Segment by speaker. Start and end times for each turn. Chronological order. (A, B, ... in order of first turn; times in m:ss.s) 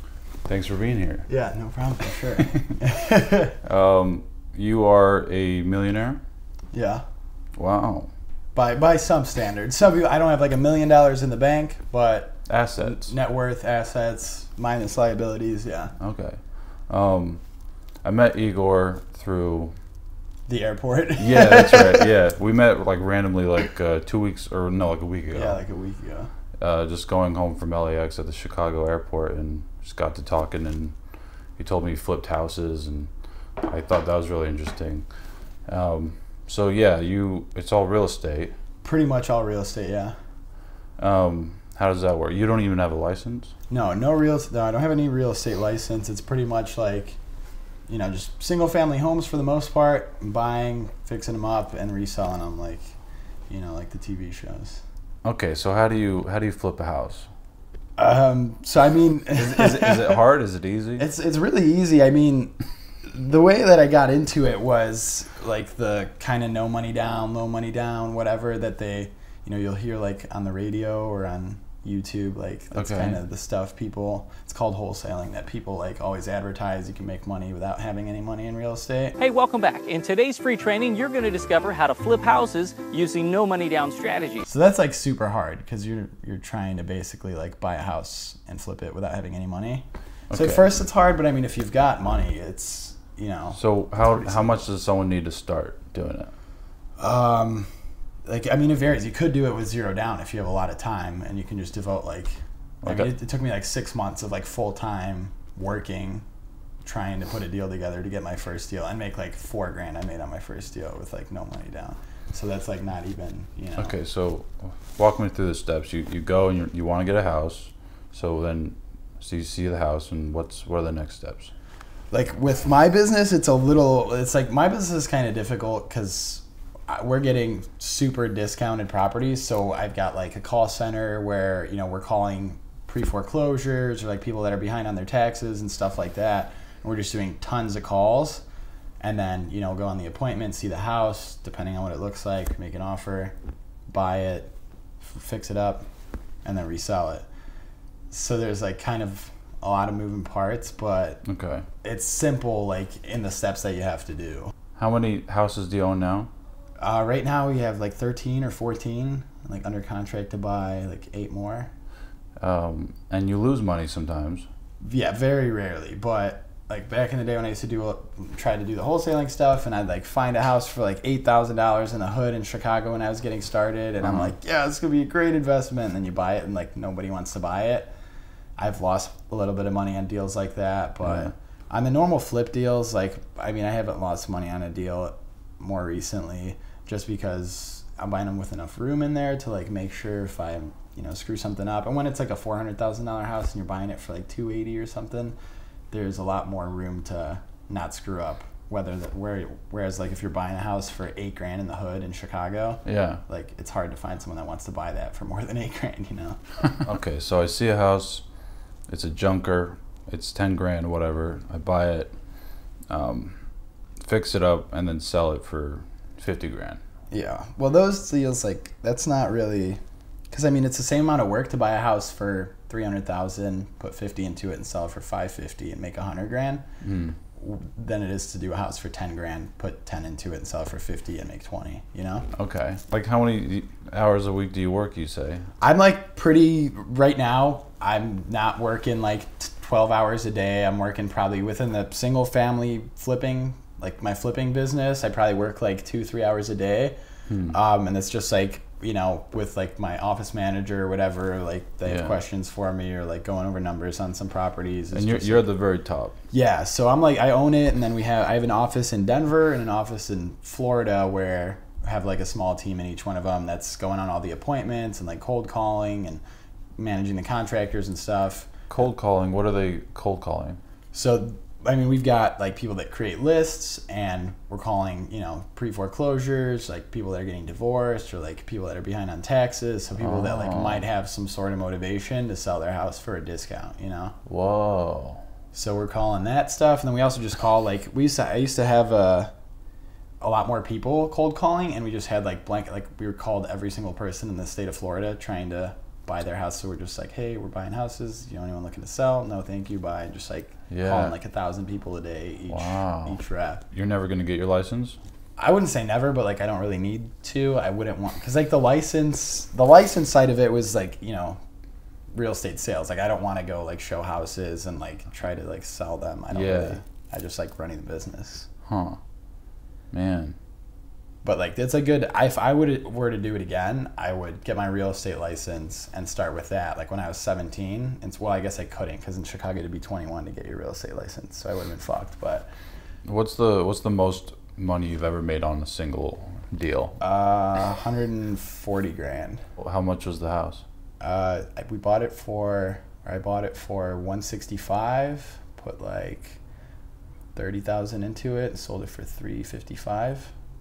0:00.4-0:01.3 A
0:01.3-0:03.6 B
0:03.6-0:06.2 A
0:06.7-0:07.0 B
0:07.6-0:08.1 A
0:08.5-0:15.9 B
0:12.5-0:13.1 A
0:16.0-0:17.4 A
0:18.0-0:19.7 A
0:20.5-0:22.1 B
0:21.2-0:25.6 A
0:25.3-0:26.3 B
0:26.6-0:30.9 A
0:31.6-0:33.1 A
0:33.6-0:35.0 A
0:35.7-0:38.5 A
0:38.8-0:40.2 B
0:41.0-0:43.5 A
0:43.7-0:47.2 B
0:47.9-0:52.8 B
0:53.5-0:54.8 B
0:55.2-0:57.3 A
0:58.0-1:00.2 B
0:59.3-1:01.0 A
1:01.0-1:02.5 B
1:03.0-1:19.2 B
1:12.7-1:13.2 A
1:19.2-1:24.4 C
1:24.4-1:34.7 B
1:30.3-1:30.8 A
1:33.5-1:36.3 A
1:37.0-1:37.7 B
1:38.2-1:46.2 B
1:46.8-1:53.9 B
1:53.8-2:01.5 A
2:02.1-2:18.4 B
2:19.0-2:23.3 B
2:23.9-2:25.8 B
2:26.4-2:27.2 B
2:28.1-2:31.2 B
2:31.2-2:31.6 A
2:31.8-2:34.5 B
2:34.8-2:36.3 A
2:36.8-2:41.7 B
2:42.4-2:44.4 A
2:44.8-2:57.9 B
2:54.0-2:54.3 A
2:58.6-3:15.4 B
3:01.0-3:01.3 A
3:15.9-3:26.8 B
3:22.8-3:23.2 A
3:26.8-3:28.2 A
3:28.9-3:32.1 A
3:32.9-3:33.4 A
3:34.0-3:36.8 A
3:37.1-3:46.6 B
3:46.8-3:47.2 A
3:47.4-3:52.3 B
3:52.4-3:55.5 A
3:55.6-4:06.9 B
4:07.3-4:07.6 A
4:07.5-4:15.5 B
4:11.8-4:12.2 A
4:14.9-4:16.1 A
4:16.3-4:26.2 B
4:26.8-4:28.5 B
4:28.7-4:30.6 A
4:30.9-4:44.2 B
4:40.0-4:40.8 A
4:44.3-4:45.2 A
4:45.5-4:49.3 B
4:50.2-5:03.6 B
5:00.7-5:01.1 A
5:02.5-5:03.2 A
5:03.7-5:05.0 A
5:05.4-5:11.4 B
5:12.1-5:18.5 B
5:16.3-5:16.8 A
5:18.7-5:19.0 A
5:19.9-5:20.4 A
5:21.2-5:32.5 B
5:33.0-5:36.9 A
5:37.0-5:39.4 B
5:39.6-5:40.6 A
5:41.0-5:46.4 B
5:47.3-5:50.3 B